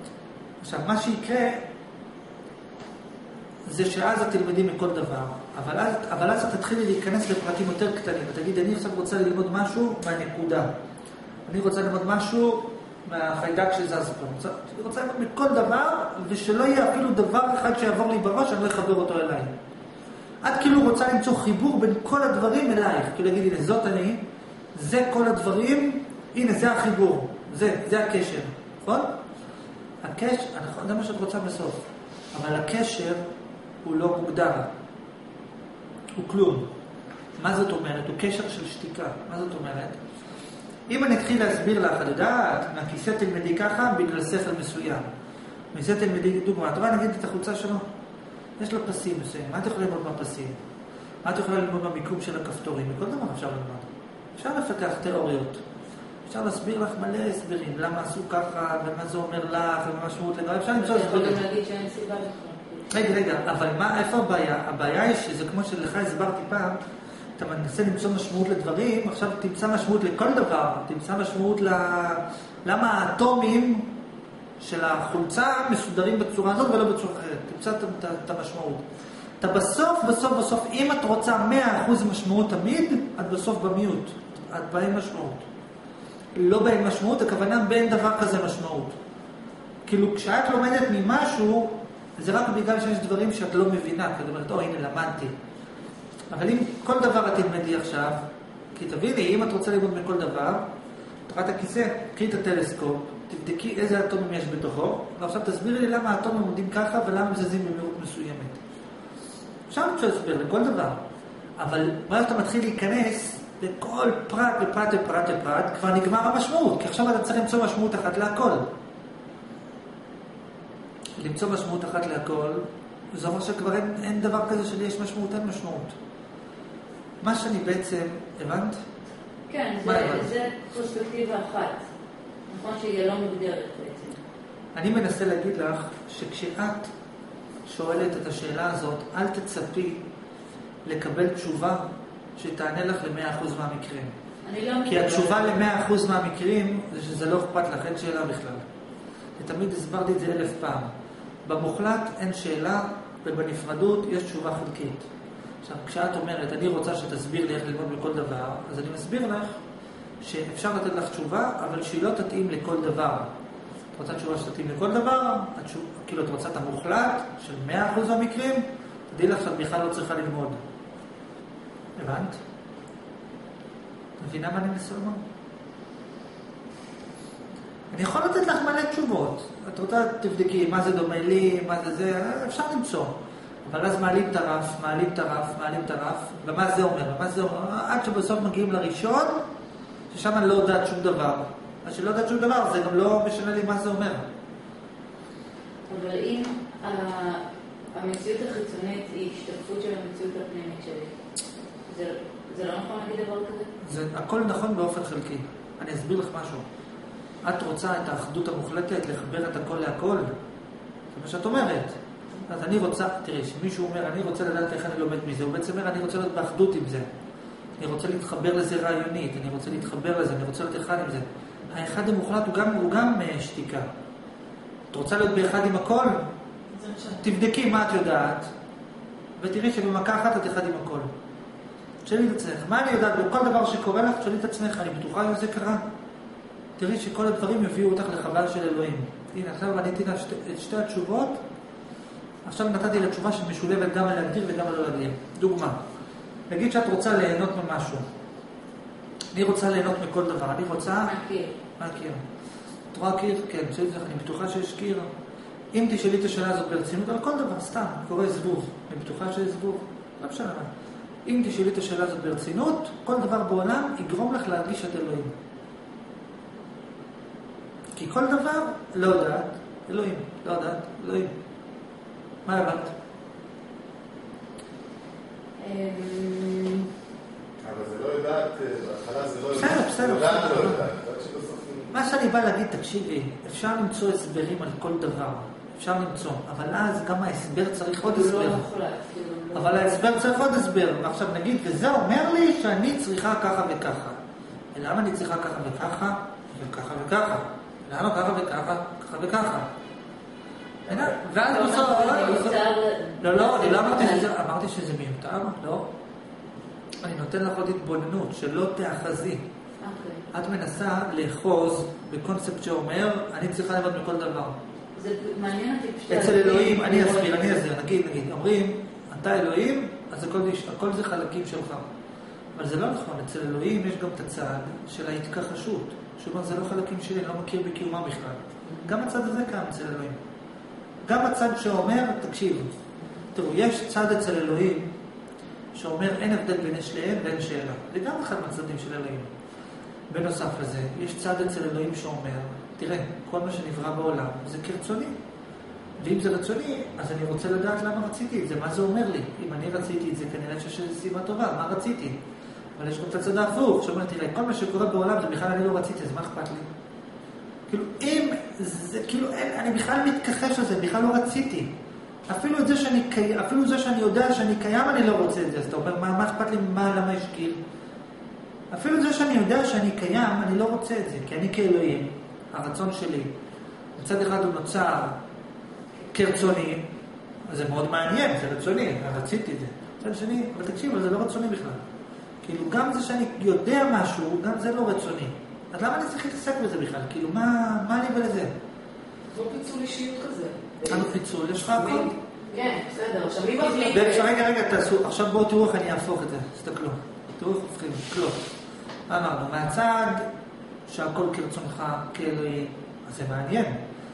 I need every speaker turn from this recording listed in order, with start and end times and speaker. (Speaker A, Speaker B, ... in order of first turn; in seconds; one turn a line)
Speaker A: 0.6-1.6
Speaker A: 3.6-10.7
Speaker A: 11.5-19.5
Speaker A: 20.4-24.2
Speaker A: 24.7-29.1
Speaker A: 30.0-33.2
Speaker A: 33.8-34.7
Speaker A: 36.2-36.7
Speaker A: 37.4-40.0
Speaker A: 40.9-45.1
Speaker A: 45.7-47.8
Speaker A: 48.6-50.6
Speaker A: 51.2-55.6
Speaker A: 56.2-61.4
Speaker B: 60.8-62.9
Speaker A: 62.9-66.8
Speaker A: 67.4-73.9
Speaker A: 74.6-78.8
Speaker A: 79.4-85.4
Speaker A: 86.3-89.0
Speaker A: 89.8-95.3
Speaker A: 96.3-100.7
Speaker A: 101.3-108.6
Speaker A: 109.7-111.0
Speaker A: 111.6-118.7
Speaker A: 121.2-126.0
Speaker A: 127.2-128.8
Speaker B: 129.5-131.8
Speaker A: 129.8-130.3
Speaker B: 132.5-134.2
Speaker A: 134.7-136.9
Speaker A: 137.6-140.0
Speaker A: 140.8-141.8
Speaker A: 142.3-144.1
Speaker B: 144.4-145.6
Speaker A: 144.8-148.6
Speaker A: 149.4-150.9
Speaker A: 151.4-155.1
Speaker A: 155.6-159.6
Speaker A: 160.2-163.3
Speaker A: 163.9-170.6
Speaker A: 171.9-172.4
Speaker A: 174.2-175.2
Speaker A: 177.9-189.4
Speaker A: 190.1-194.2
Speaker B: 195.9-201.1
Speaker B: 201.9-203.7
Speaker A: 203.8-206.6
Speaker A: 207.4-210.3
Speaker A: 211.1-217.1
Speaker A: 217.8-223.9
Speaker A: 224.9-226.3
Speaker A: 226.9-228.5
Speaker A: 229.4-231.1
Speaker A: 232.0-235.8
Speaker A: 236.8-241.4
Speaker A: 242.4-245.8
Speaker A: 246.5-248.1
Speaker A: 249.3-251.2
Speaker B: 251.0-251.5
Speaker A: 251.8-252.2
Speaker A: 252.9-255.1
Speaker A: 255.7-260.7
Speaker A: 261.2-265.3
Speaker A: 267.9-271.3
Speaker A: 272.4-272.9
Speaker B: 275.6-276.9
Speaker C: 277.6-281.9
Speaker A: 279.5-280.9
Speaker A: 281.9-288.6
Speaker B: 288.0-290.1
Speaker A: 289.5-294.2
Speaker A: 294.7-299.7
Speaker A: 300.9-302.6
Speaker B: 301.4-304.3
Speaker A: 303.2-305.9
Speaker A: 307.0-309.4
Speaker B: 309.8-310.2
Speaker A: 310.3-314.6
Speaker B: 314.9-317.6
Speaker A: 316.1-321.9
Speaker A: 322.5-330.2
Speaker A: 331.0-332.7
Speaker A: 333.3-334.9
Speaker A: 335.7-339.3
Speaker A: 340.1-345.1
Speaker A: 346.0-352.2
Speaker A: 352.8-356.7
Speaker A: 357.7-361.7
Speaker A: 362.3-367.6
Speaker A: 368.7-373.3
Speaker A: 374.0-375.2
Speaker A: 376.1-376.9
Speaker A: 377.5-381.8
Speaker A: 382.4-388.5
Speaker D: 389.3-391.1
Speaker A: 390.9-392.1
Speaker D: 391.7-394.2
Speaker A: 393.6-398.4
Speaker A: 399.1-400.2
Speaker A: 400.9-403.8